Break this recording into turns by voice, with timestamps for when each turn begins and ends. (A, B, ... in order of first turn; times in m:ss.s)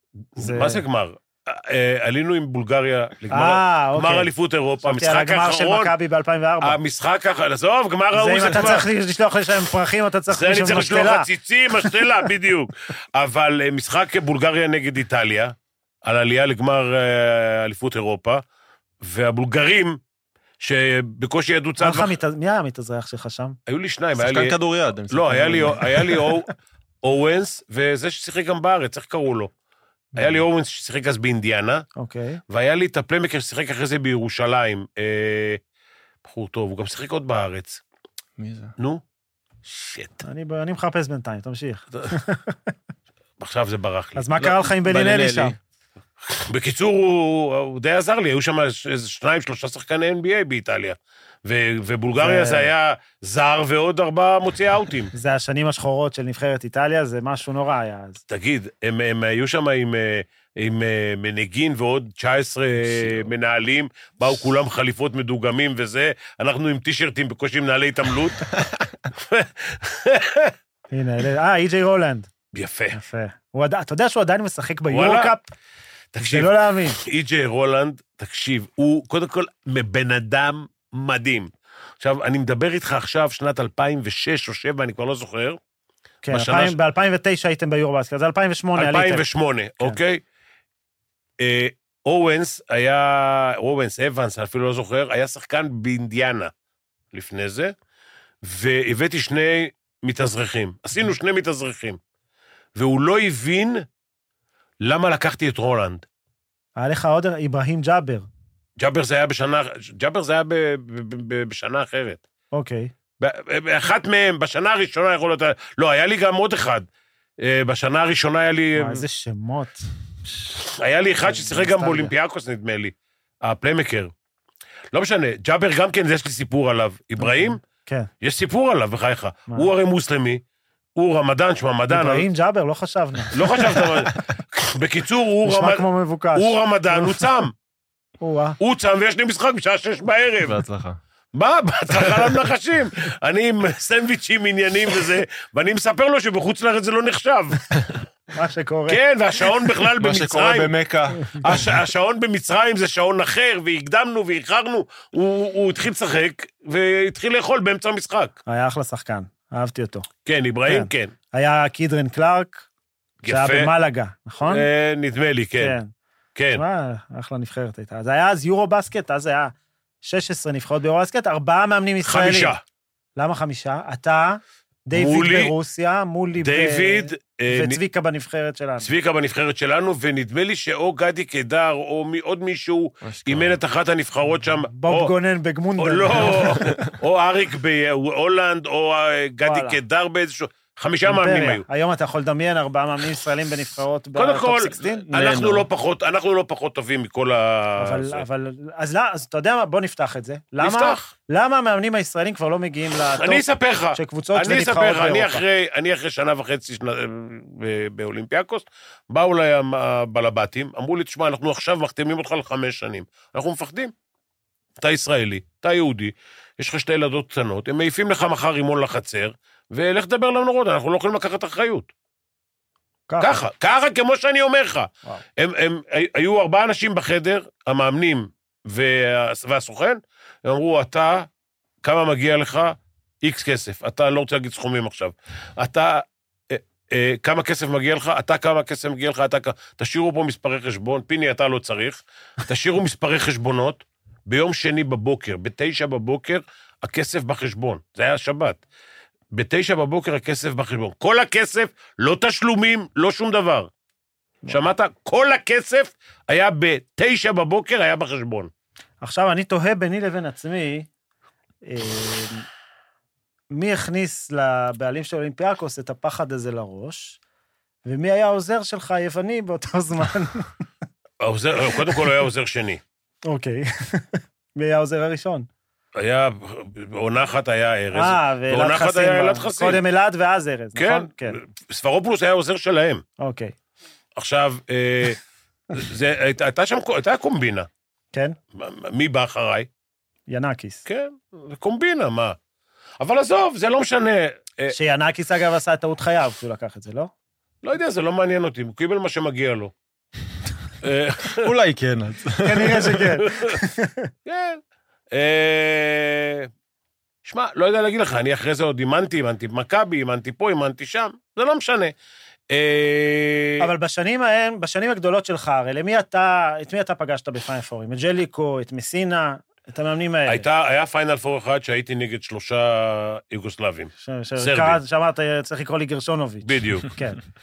0:00.4-0:05.9 A
0:00.4-0:00.8 B
0:03.3-0:04.3 B
0:04.8-0:06.8 B
0:06.6-0:08.8 A
0:08.1-0:11.3 B
0:10.3-0:18.4 A
0:19.0-0:20.0 A
0:20.6-0:22.2 A
0:21.8-0:23.6 B
0:23.7-0:24.6 A
0:24.2-0:26.3 C
0:25.1-0:26.5 A
0:27.0-0:29.5 A
0:30.2-0:31.8 A
0:32.0-0:32.4 B
0:32.5-0:35.6 A
0:36.2-0:37.8 A
0:38.4-0:38.7 C
0:39.6-0:40.2 A
0:40.2-0:42.7 B
0:43.4-0:44.2 A
0:44.2-0:45.5 B
0:44.4-0:45.6 C
0:46.3-0:55.1 A
0:52.2-0:52.7 B
0:55.1-0:58.2 B
0:58.3-1:08.4 A
1:09.1-1:10.5 A
1:10.9-1:12.3 B
1:12.5-1:13.0 A
1:12.9-1:15.5 B
1:14.9-1:15.3 A
1:16.1-1:25.6 A
1:16.2-1:17.0 B
1:26.2-1:29.2 B
1:26.3-1:26.8 A
1:28.8-1:30.2 A
1:31.4-1:36.5 A
1:37.1-1:37.7 A
1:38.4-1:42.0 A
1:42.8-1:43.8 A
1:44.8-1:46.0 A
1:46.8-1:48.3 B
1:48.8-1:52.2 A
1:52.5-1:52.9 B
1:53.2-1:56.8 A
1:57.4-1:59.0 A
1:58.8-1:59.8 B
2:00.5-2:04.1 A
2:01.2-2:02.1 B
2:04.9-2:07.6 A
2:07.2-2:08.1 B
2:08.2-2:10.4 A
2:11.0-2:12.3 A
2:11.9-2:13.8 B
2:13.3-2:17.5 A
2:15.4-2:17.2 B
2:18.2-2:18.6 B
2:18.6-2:20.6 A
2:20.4-2:21.0 C
2:21.3-2:27.8 A
2:28.3-2:29.0 B
2:28.9-2:30.7 A
2:30.0-2:31.7 C
2:31.4-2:38.3 A
2:38.5-2:40.1 B
2:40.2-2:41.1 A
2:40.7-2:42.7 B
2:43.2-2:43.7 A
2:43.2-2:44.6 B
2:44.5-2:45.8 A
2:45.6-2:45.9 B
2:46.4-2:46.6 A
2:46.5-2:52.5 B
2:52.0-2:52.6 A
2:53.2-2:58.9 B
2:54.9-2:55.5 A
2:56.4-2:57.8 A
2:58.8-3:05.1 A
3:03.0-3:03.6 C
3:04.7-3:06.8 B
3:05.8-3:11.6 A
3:09.4-3:09.8 B
3:11.0-3:15.0 B
3:14.2-3:18.2 A
3:14.8-3:15.7 C
3:17.8-3:23.4 B
3:20.6-3:21.1 A
3:23.2-3:33.9 A
3:23.9-3:25.4 B
3:34.8-3:41.9 A
3:43.1-3:43.4 B
3:43.2-3:51.3 A
3:51.8-4:08.6 A
4:09.3-4:13.7 A
4:14.5-4:18.5 A
4:19.0-4:20.9 B
4:21.6-4:22.5 B
4:23.5-4:27.2 B
4:27.8-4:30.5 B
4:31.2-4:32.8 A
4:33.2-4:35.5 B
4:36.0-4:39.8 A
4:37.9-4:41.4 B
4:40.8-4:43.0 A
4:43.2-4:43.5 B
4:44.2-4:45.2 A
4:45.7-4:47.7 A
4:48.6-4:49.7 A
4:50.3-4:50.8 B
4:50.8-4:52.4 A
4:53.0-4:54.8 A
4:54.7-4:57.1 B
4:57.6-4:59.7 A
5:00.8-5:01.5 A
5:01.4-5:03.1 C
5:02.4-5:04.1 B
5:03.2-5:03.6 A
5:04.2-5:04.6 A
5:05.1-5:06.5 A
5:07.2-5:11.9 A
5:12.5-5:13.7 A
5:13.6-5:20.4 B
5:20.3-5:24.8 A
5:24.0-5:27.2 B
5:26.4-5:26.9 A